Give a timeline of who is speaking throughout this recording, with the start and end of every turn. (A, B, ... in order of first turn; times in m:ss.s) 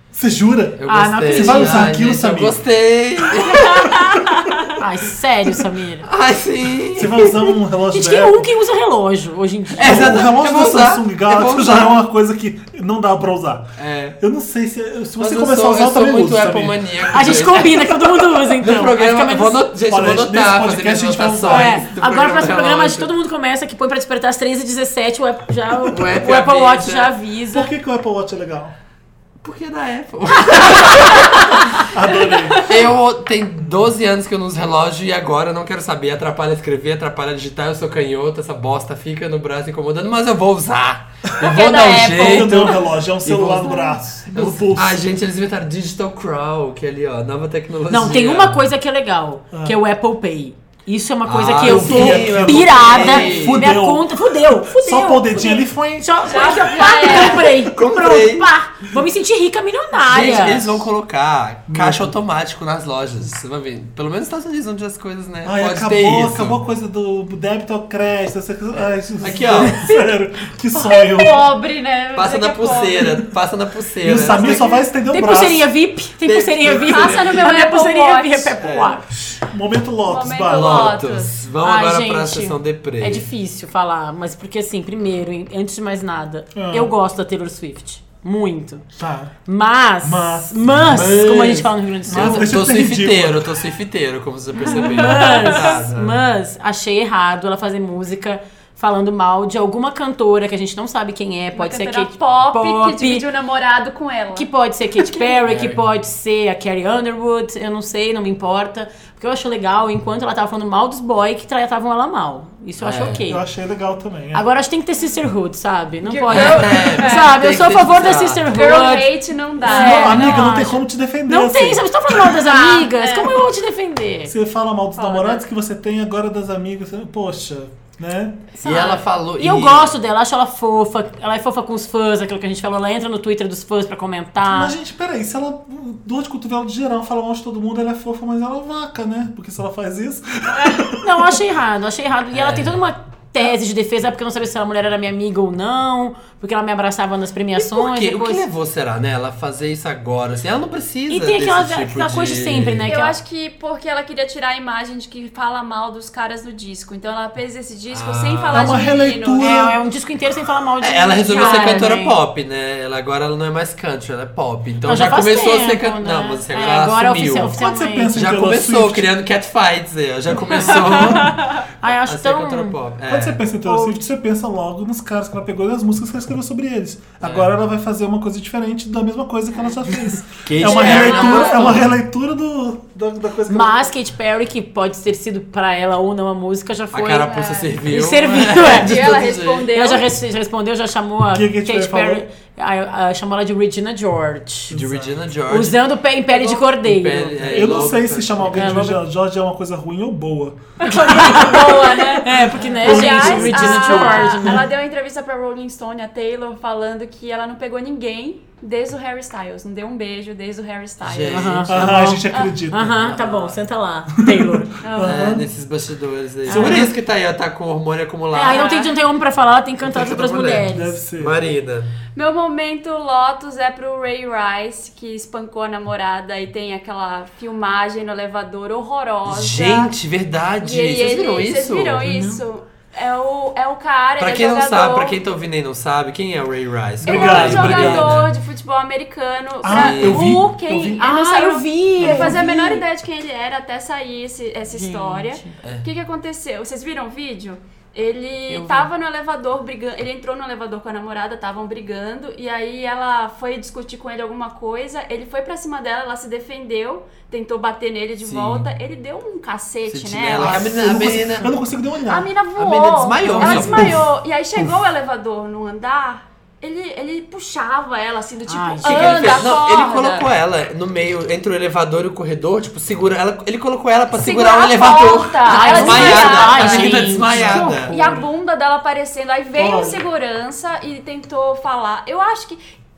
0:00.1-0:02.6 A
0:00.8-0:04.2 B
0:00.9-0:02.0 C
0:03.4-0:04.5 A
0:03.8-0:04.4 D
0:04.8-0:06.1 C
0:06.0-0:07.5 B
0:06.9-0:08.5 A
0:07.9-0:10.2 C
0:09.8-0:17.6 A
0:09.8-0:12.0 B
0:13.8-0:14.2 B
0:15.2-0:23.1 B
0:17.1-0:19.7 C
0:19.9-0:21.9 A
0:21.5-0:27.7 C
0:25.8-0:27.2 B
0:27.5-0:28.8 A
0:29.4-0:31.6 B
0:31.8-0:32.6 A
0:32.3-0:32.8 D
0:32.6-0:48.6 B
0:41.4-0:42.9 D
0:41.4-0:45.0 A
0:47.9-1:00.8 C
0:49.5-0:49.8 A
0:51.3-0:53.6 B
0:51.5-0:56.5 A
0:56.3-0:57.5 D
0:57.1-0:58.5 B
1:00.0-1:06.6 B
1:01.7-1:02.2 A
1:05.4-1:11.5 A
1:09.2-1:09.9 B
1:10.7-1:13.3 D
1:12.2-1:14.7 B
1:14.0-1:15.7 A
1:14.3-1:14.8 D
1:15.1-1:19.1 C
1:16.2-1:17.5 B
1:16.8-1:18.9 D
1:18.6-1:18.9 B
1:19.3-1:21.1 A
1:20.0-1:21.4 D
1:20.5-1:23.3 B
1:21.6-1:28.8 C
1:26.6-1:26.9 A
1:29.0-1:29.3 A
1:29.5-1:32.5 C
1:30.0-1:33.5 A
1:32.1-1:36.2 B
1:34.6-1:43.2 C
1:34.7-1:35.7 D
1:41.5-1:44.5 D
1:44.4-1:53.4 C
1:45.3-1:45.8 B
1:52.8-1:53.2 B
1:53.3-1:54.4 A
1:54.3-1:59.1 C
1:56.0-1:57.4 D
1:56.3-1:58.5 B
1:58.5-2:00.5 D
1:59.6-2:02.4 A
1:59.6-2:04.3 C
2:02.4-2:03.4 D
2:04.3-2:08.5 A
2:05.0-2:05.4 D
2:08.6-2:14.8 C
2:08.6-2:09.9 B
2:14.5-2:21.4 A
2:20.6-2:20.8 D
2:21.0-2:28.4 C
2:22.3-2:22.8 B
2:27.5-2:32.9 B
2:31.1-2:33.2 C
2:32.9-2:39.5 D
2:37.9-2:38.9 B
2:38.5-2:39.8 A
2:39.4-2:42.2 C
2:40.8-2:47.6 B
2:41.3-2:41.9 D
2:44.8-2:48.2 C
2:47.4-2:49.1 A
2:48.1-2:53.4 B
2:50.5-2:52.8 C
2:53.1-3:03.9 A
2:53.6-2:54.1 C
2:57.2-2:57.5 B
3:00.4-3:01.9 B
3:00.6-3:01.9 D
3:03.5-3:09.2 C
3:06.9-3:09.7 B
3:07.2-3:07.8 D
3:08.3-3:10.1 D
3:09.7-3:14.8 C
3:11.3-3:12.3 A
3:14.7-3:15.2 A
3:14.7-3:15.8 B
3:15.5-3:17.7 C
3:16.4-3:18.9 B
3:17.4-3:21.6 A
3:17.5-3:17.9 D
3:18.5-3:19.0 C
3:20.8-3:31.6 D
3:20.8-3:24.7 C
3:22.7-3:24.6 A
3:31.0-3:31.9 B
3:31.3-3:34.8 C
3:31.7-3:33.0 A
3:32.3-3:32.6 D
3:32.8-3:33.6 B
3:34.2-3:35.4 A
3:34.8-3:35.4 D
3:35.0-3:38.7 B
3:36.5-3:36.9 A
3:36.5-3:36.9 C
3:38.3-3:41.0 C
3:38.4-3:38.9 D
3:39.8-3:41.9 B
3:40.7-3:41.4 A
3:42.2-3:50.0 D
3:49.3-3:52.1 B
3:50.6-3:55.2 D
3:52.0-3:52.4 C
3:54.2-3:58.3 B
3:57.0-3:58.2 A
3:57.0-4:21.1 D
3:59.6-4:01.0 A
3:59.7-4:00.3 B
4:01.0-4:02.7 C
4:02.0-4:02.8 A
4:04.7-4:05.6 C
4:08.5-4:08.9 C
4:18.2-4:18.7 B
4:19.9-4:21.5 B
4:20.4-4:22.3 A
4:22.1-4:30.3 D
4:22.6-4:24.0 B
4:23.2-4:23.7 C
4:23.4-4:24.0 A
4:28.5-4:29.5 C
4:28.8-4:38.0 B
4:34.1-4:42.6 D
4:35.5-4:38.2 C
4:37.3-4:37.6 A
4:39.6-4:40.1 A